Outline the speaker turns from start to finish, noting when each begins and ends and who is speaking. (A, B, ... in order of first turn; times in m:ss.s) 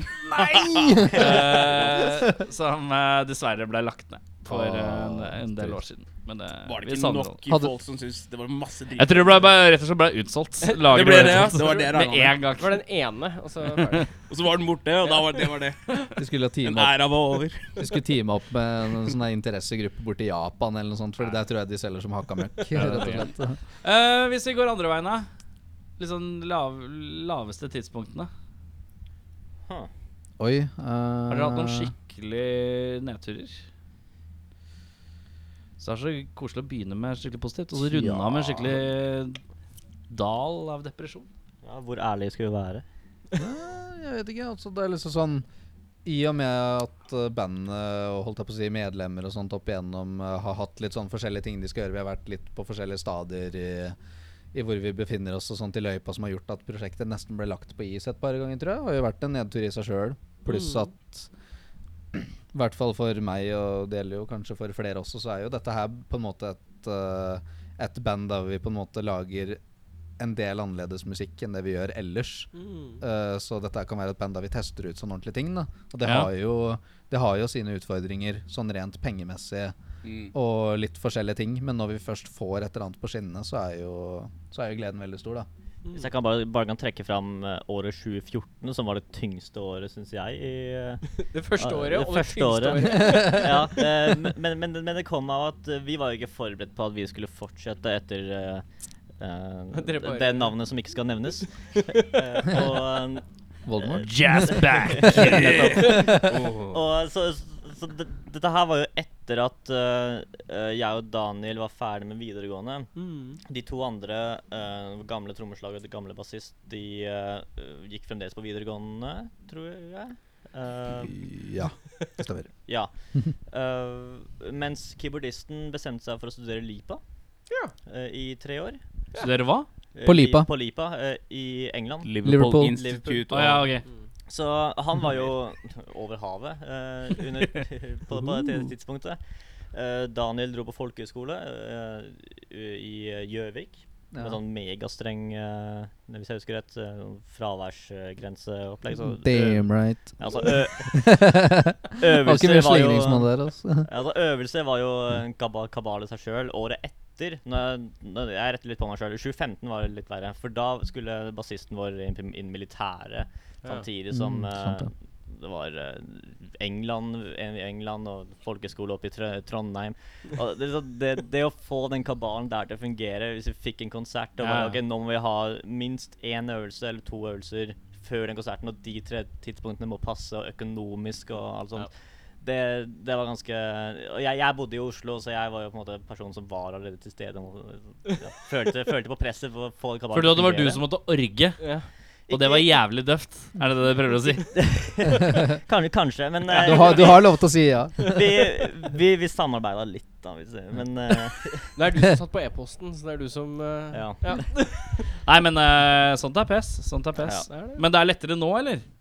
0:00.2-0:07.4 A
0:00.4-0:02.3 B
0:04.5-0:05.8 B
0:06.6-0:09.5 C
0:09.0-0:12.8 A
0:10.6-0:11.9 D
0:10.9-0:12.4 C
0:12.6-0:14.1 D
0:14.3-0:16.0 C
0:16.2-0:17.1 B
0:16.6-0:17.8 C
0:17.8-0:23.6 B
0:22.8-0:23.3 A
0:23.8-0:25.3 A
0:26.0-0:28.3 A
0:30.4-0:31.9 B
0:31.3-0:33.6 A
0:35.8-0:39.4 A
0:37.8-0:38.8 B
0:40.1-0:41.3 A
0:41.6-0:42.8 E
0:43.4-0:45.5 B
0:46.0-0:54.0 B
0:54.5-1:01.3 B
1:00.5-1:00.9 D
1:02.1-1:09.6 B
1:10.2-1:19.8 B
1:12.5-1:13.0 D
1:16.0-1:16.3 A
1:20.0-1:20.3 C
1:20.3-1:25.5 B
1:25.9-1:38.6 E
1:31.2-1:33.9 D
1:39.2-1:43.2 E
1:39.7-1:40.6 D
1:41.9-1:42.2 D
1:43.7-1:46.4 B
1:43.8-1:46.1 E
1:44.0-1:46.0 A
1:45.8-1:46.8 D
1:46.7-2:01.1 E
1:53.0-1:53.4 D
2:01.0-2:02.6 B
2:02.7-2:07.0 E
2:07.8-2:08.8 E
2:09.2-2:09.7 A
2:09.9-2:12.1 E
2:10.0-2:10.5 B
2:12.0-2:13.8 C
2:12.2-2:12.8 B
2:13.3-2:13.8 A
2:14.3-2:19.2 E
2:19.7-2:31.1 E
2:24.1-2:24.4 B
2:29.0-2:33.9 B
2:32.0-2:33.3 E
2:33.8-3:01.9 E
2:44.1-2:44.9 B
2:54.4-2:54.7 A
3:02.4-3:10.8 E
3:10.1-3:11.6 A
3:11.6-3:11.9 D
3:12.3-3:12.7 E
3:12.3-3:14.5 A
3:14.5-3:17.4 E
3:16.5-3:18.3 B
3:16.6-3:17.1 D
3:18.0-3:21.8 E
3:21.8-3:25.0 D
3:23.9-3:24.4 E
3:25.2-3:28.8 A
3:27.2-3:27.5 E
3:27.5-3:27.8 D